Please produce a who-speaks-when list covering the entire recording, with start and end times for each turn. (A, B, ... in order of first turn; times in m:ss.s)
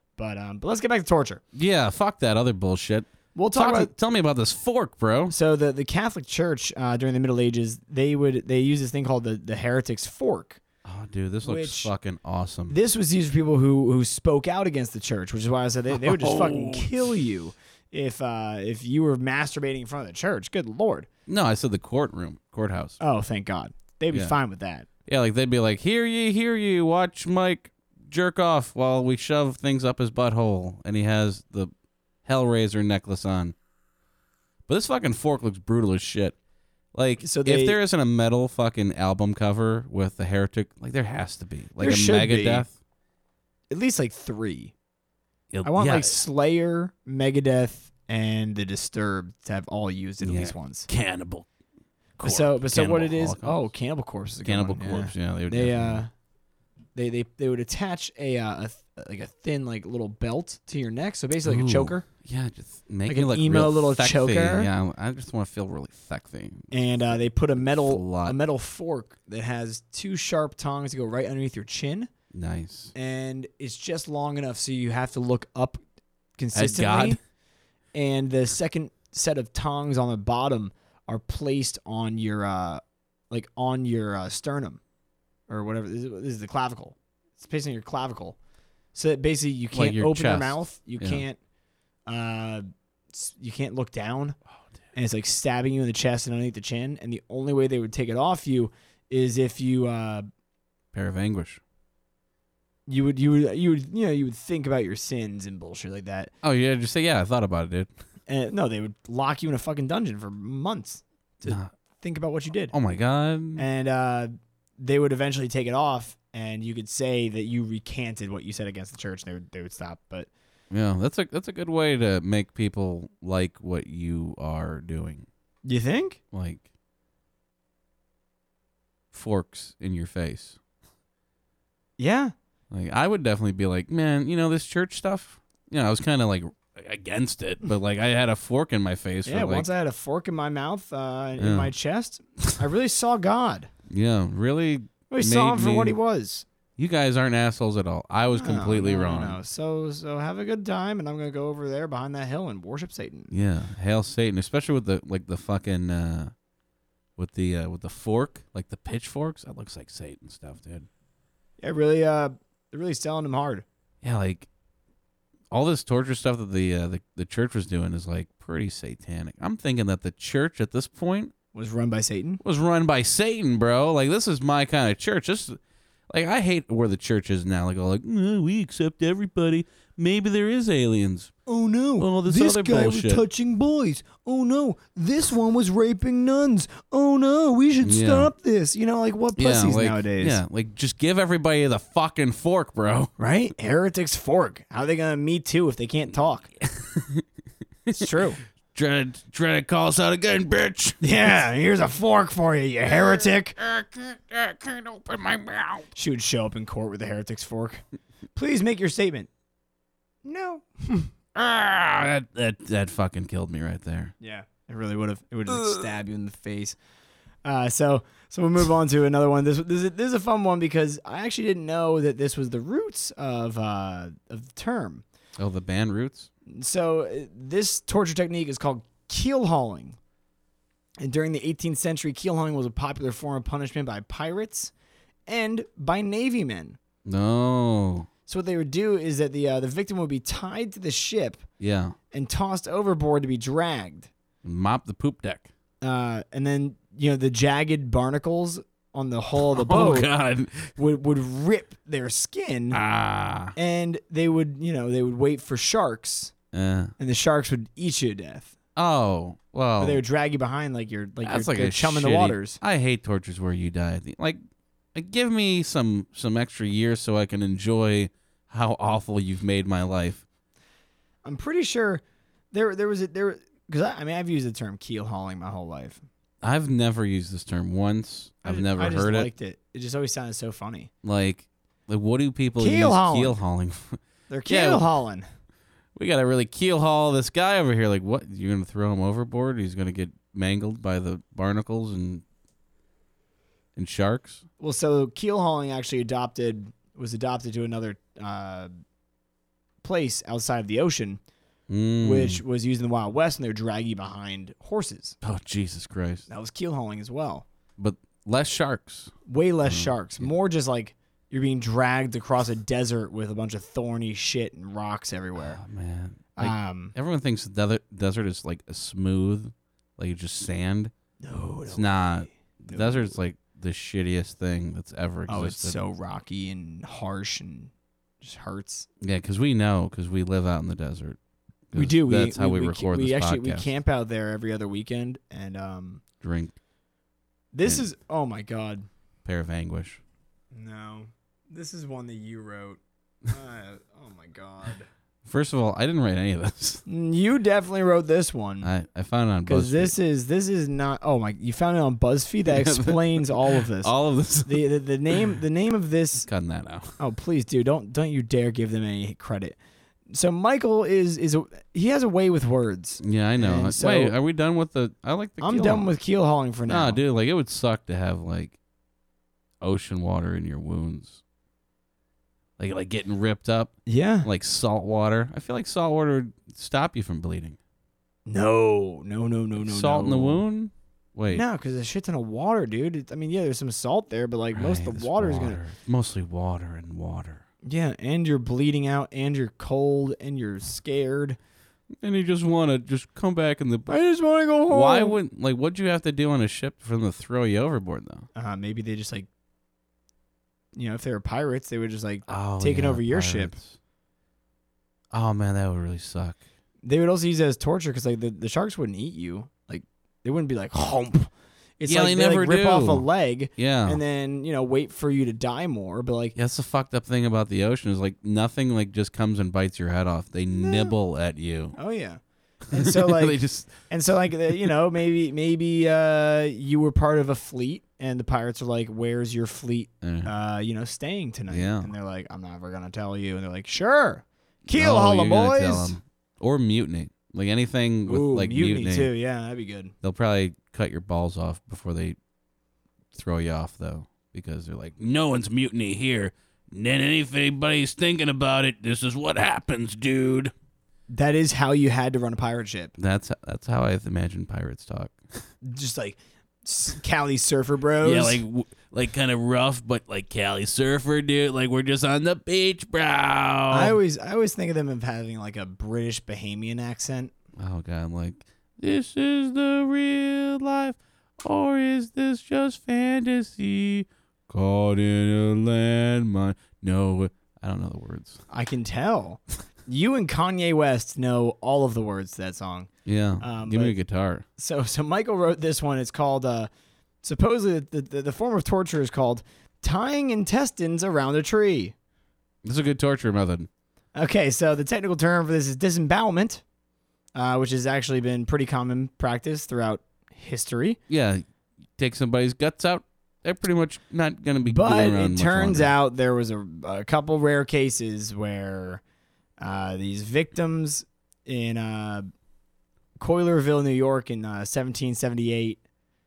0:00.2-0:01.4 A
0:01.5-0:05.3 B
0:03.4-0:03.9 A
0:05.3-0:10.6 A
0:10.8-0:12.8 B
0:11.4-0:11.9 A
0:12.7-0:21.1 A
0:15.9-0:17.1 B
0:21.3-0:23.0 B
0:23.0-0:24.9 A
0:25.1-0:31.7 B
0:32.2-0:33.6 B
0:34.7-0:36.4 B
0:36.9-0:42.7 B
0:37.2-0:37.8 A
0:41.8-0:42.7 A
0:43.7-0:44.7 A
0:45.5-0:46.2 B
0:45.6-0:50.9 A
0:50.2-0:51.5 B
0:52.2-0:53.7 B
0:52.2-0:56.1 A
0:54.4-0:56.0 B
0:57.0-1:02.0 A
1:01.4-1:08.4 B
1:03.1-1:04.7 A
1:06.7-1:12.1 A
1:12.3-1:12.9 B
1:13.0-1:15.8 A
1:16.4-1:17.2 A
1:16.5-1:17.2 B
1:17.9-1:24.8 A
1:25.5-1:28.4 A
1:28.9-1:31.4 A
1:29.7-1:31.2 B
1:32.1-1:34.4 A
1:35.0-1:40.2 A
1:40.9-1:41.6 B
1:42.9-1:46.3 A
1:46.4-1:47.9 B
1:48.3-1:52.7 A
1:52.7-1:53.6 B
1:53.6-2:00.3 A
2:00.7-2:05.3 B
2:05.6-2:06.2 A
2:06.3-2:06.7 B
2:09.1-2:10.6 B
2:12.0-2:12.3 A
2:12.7-2:19.7 B
2:19.2-2:23.7 A
2:21.4-2:21.7 B
2:23.9-2:26.0 B
2:25.1-2:26.5 A
2:26.8-2:29.4 B
2:28.3-2:33.3 A
2:33.3-2:36.3 B
2:37.2-2:40.9 B
2:41.6-2:43.6 A
2:44.0-2:44.5 B
2:45.5-2:51.3 B
2:51.5-2:52.4 A
2:52.4-2:55.6 B
2:56.1-3:01.3 B
3:01.5-3:10.4 A
3:02.0-3:03.2 B
3:07.8-3:08.3 B
3:09.4-3:13.1 B
3:13.2-3:16.5 A
3:16.6-3:17.2 B
3:17.9-3:18.2 B
3:17.9-3:18.4 A
3:18.7-3:21.3 B
3:21.0-3:23.6 A
3:22.9-3:25.9 B
3:26.0-3:27.8 A
3:28.4-3:29.3 A
3:30.2-3:31.1 A
3:31.4-3:34.1 B
3:34.2-3:36.8 A
3:37.4-3:45.0 A
3:45.4-3:46.3 B
3:46.5-3:50.0 A
3:51.0-3:54.7 A
3:55.3-3:56.8 A
3:57.0-3:58.1 B
3:58.3-4:01.4 A
4:01.6-4:02.0 B
4:02.1-4:04.1 A
4:04.4-4:05.5 B
4:05.8-4:10.1 A
4:09.5-4:10.7 B
4:10.8-4:12.8 A
4:12.7-4:13.5 B
4:13.6-4:16.3 A
4:16.5-4:16.9 B
4:17.0-4:18.6 A
4:18.8-4:20.0 B
4:19.8-4:22.6 A
4:21.2-4:24.4 B
4:24.9-4:30.2 B
4:31.2-4:36.0 A
4:36.4-4:39.3 B
4:38.4-4:40.9 A
4:41.0-4:44.8 B
4:42.6-4:43.4 A
4:44.3-4:45.3 A
4:46.0-4:52.2 B
4:53.8-4:54.4 B
4:54.6-4:58.7 A
4:59.8-5:01.2 A
5:01.7-5:02.4 B
5:02.0-5:05.2 A
5:05.2-5:06.3 B
5:06.3-5:07.5 A
5:07.8-5:09.1 B
5:09.3-5:15.6 A
5:09.7-5:10.3 B
5:15.4-5:20.9 B
5:16.4-5:16.9 A
5:21.2-5:23.2 A
5:21.7-5:25.8 B
5:25.3-5:28.9 A
5:29.0-5:31.2 B
5:31.7-5:33.7 B
5:31.7-5:36.0 A
5:36.2-5:36.5 B
5:37.5-5:38.8 A
5:39.2-5:40.0 B
5:40.5-5:44.9 A
5:45.2-5:46.8 B
5:46.9-5:48.7 A
5:48.6-5:49.9 B
5:49.5-5:53.9 A
5:52.5-5:54.6 B
5:54.4-5:56.3 A
5:56.3-5:57.0 B
5:57.0-5:59.6 A
6:00.1-6:04.2 A
6:03.0-6:05.9 B
6:05.4-6:07.0 A
6:06.7-6:08.6 B
6:09.6-6:11.2 B
6:12.6-6:17.6 B
6:13.9-6:14.3 A
6:18.3-6:20.4 A
6:19.6-6:21.4 B
6:21.3-6:25.6 A
6:24.5-6:27.4 B
6:27.6-6:31.4 A
6:32.0-6:33.9 B
6:33.9-6:35.2 A
6:34.7-6:38.3 B
6:38.4-6:39.3 A
6:40.8-6:43.6 A
6:42.3-6:43.8 B
6:45.1-6:46.4 B
6:46.8-6:56.4 A
6:51.9-6:53.0 B
6:53.6-6:54.0 B
6:56.4-7:01.8 B
7:00.6-7:00.9 A
7:01.8-7:16.0 A
7:02.7-7:03.8 B
7:10.0-7:10.3 B
7:11.5-7:11.9 B
7:14.7-7:19.1 B
7:18.1-7:19.9 A
7:20.0-7:22.2 B
7:23.1-7:30.5 B
7:31.1-7:32.9 A
7:33.0-7:35.2 B
7:35.6-7:38.4 A
7:38.0-7:44.0 B
7:43.7-7:47.3 A
7:47.6-7:58.4 B
7:58.5-8:04.0 A
8:03.1-8:04.4 B
8:04.6-8:06.7 A
8:07.2-8:12.0 A
8:12.6-8:13.7 B
8:14.2-8:16.6 A
8:17.4-8:21.0 A
8:21.1-8:21.4 B
8:22.0-8:25.9 B
8:24.7-8:29.0 A
8:29.6-8:32.3 A
8:33.2-8:35.8 A